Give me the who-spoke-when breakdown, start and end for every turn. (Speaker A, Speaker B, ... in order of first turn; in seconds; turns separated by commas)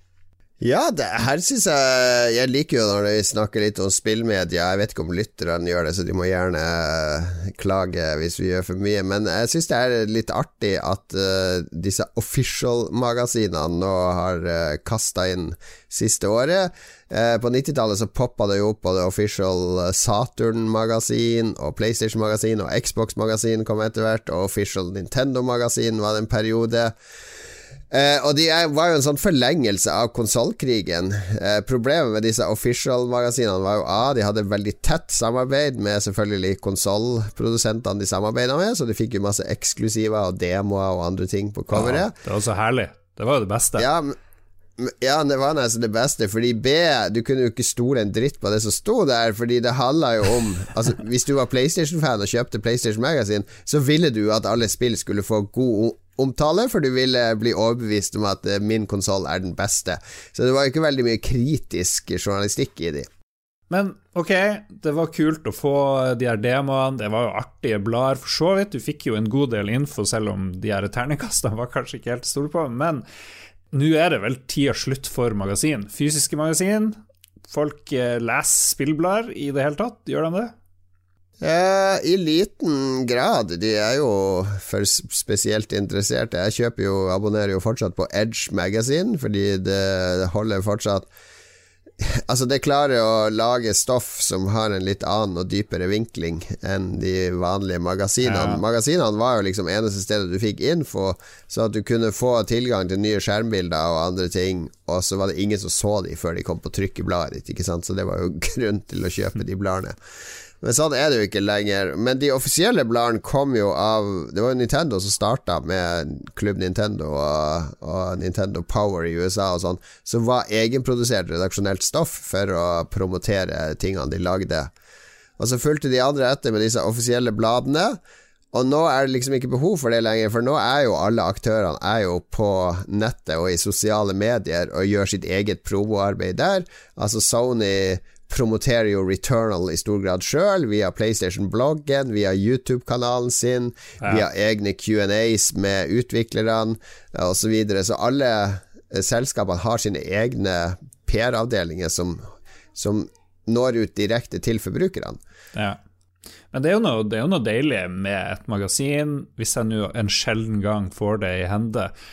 Speaker A: 0.6-26.9, Speaker A: 27.9-42.1, Speaker B: 41.7-43.9, Speaker A: 43.8-44.1, Speaker A: 44.8-63.1, Speaker B: 63.7-73.0, Speaker B: 73.7-80.5, Speaker A: 81.4-91.1, Speaker A: 92.0-110.0, Speaker B: 98.2-98.6, Speaker A: 110.6-124.7, Speaker A: 125.4-128.0, Speaker A: 128.5-152.2, Speaker A: 152.8-155.2, Speaker B: 156.5-161.9